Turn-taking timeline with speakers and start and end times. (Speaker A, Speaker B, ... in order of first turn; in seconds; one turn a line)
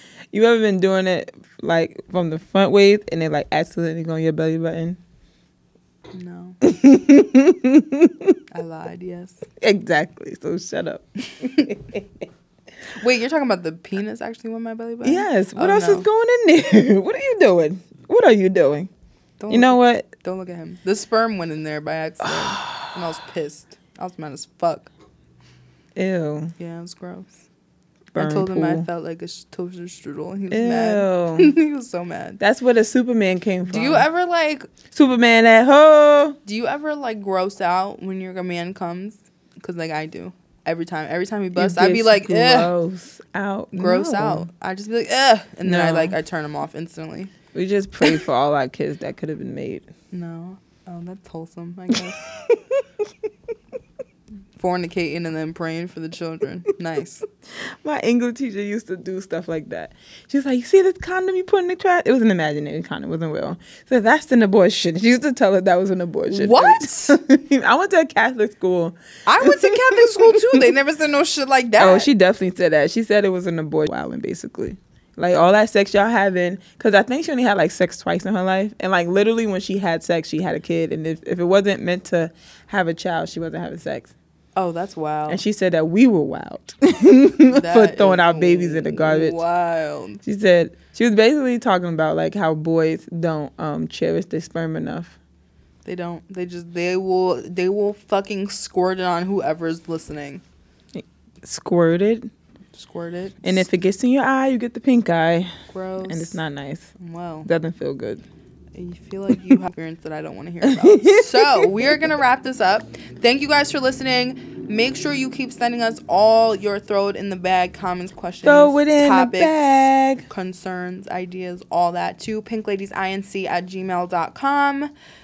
Speaker A: 0.3-5.0
Speaker B: 6.1-6.6
Speaker A: 6.6-8.4
Speaker B: 8.5-9.4
Speaker A: 9.6-12.1
Speaker B: 11.4-11.7
Speaker B: 12.9-16.1
Speaker A: 15.0-18.9
Speaker B: 19.4-24.9
Speaker A: 19.5-20.1
Speaker A: 22.2-22.6
Speaker A: 25.9-26.5
Speaker B: 26.6-27.4
Speaker A: 28.1-28.9
Speaker B: 28.1-32.4
Speaker A: 30.5-31.5
Speaker A: 32.4-34.0
Speaker B: 33.7-34.7
Speaker A: 34.9-36.4
Speaker B: 36.5-42.7
Speaker A: 41.5-44.5
Speaker B: 43.7-47.3
Speaker A: 45.6-46.1
Speaker A: 47.5-49.9
Speaker B: 50.1-52.3
Speaker A: 52.4-52.8
Speaker B: 54.5-57.2
Speaker A: 57.6-70.7
Speaker B: 66.3-67.2
Speaker B: 69.2-72.1
Speaker A: 71.8-84.1
Speaker B: 84.5-85.4
Speaker A: 85.3-89.4
Speaker B: 87.5-90.2
Speaker A: 90.2-95.2
Speaker B: 95.8-100.4
Speaker A: 100.9-102.3
Speaker B: 102.7-103.6
Speaker A: 103.4-105.5
Speaker B: 105.7-106.4
Speaker A: 106.0-106.9
Speaker B: 107.0-107.5
Speaker A: 107.4-108.2
Speaker B: 108.7-119.7
Speaker A: 110.7-112.0
Speaker A: 118.4-120.2
Speaker B: 120.2-124.9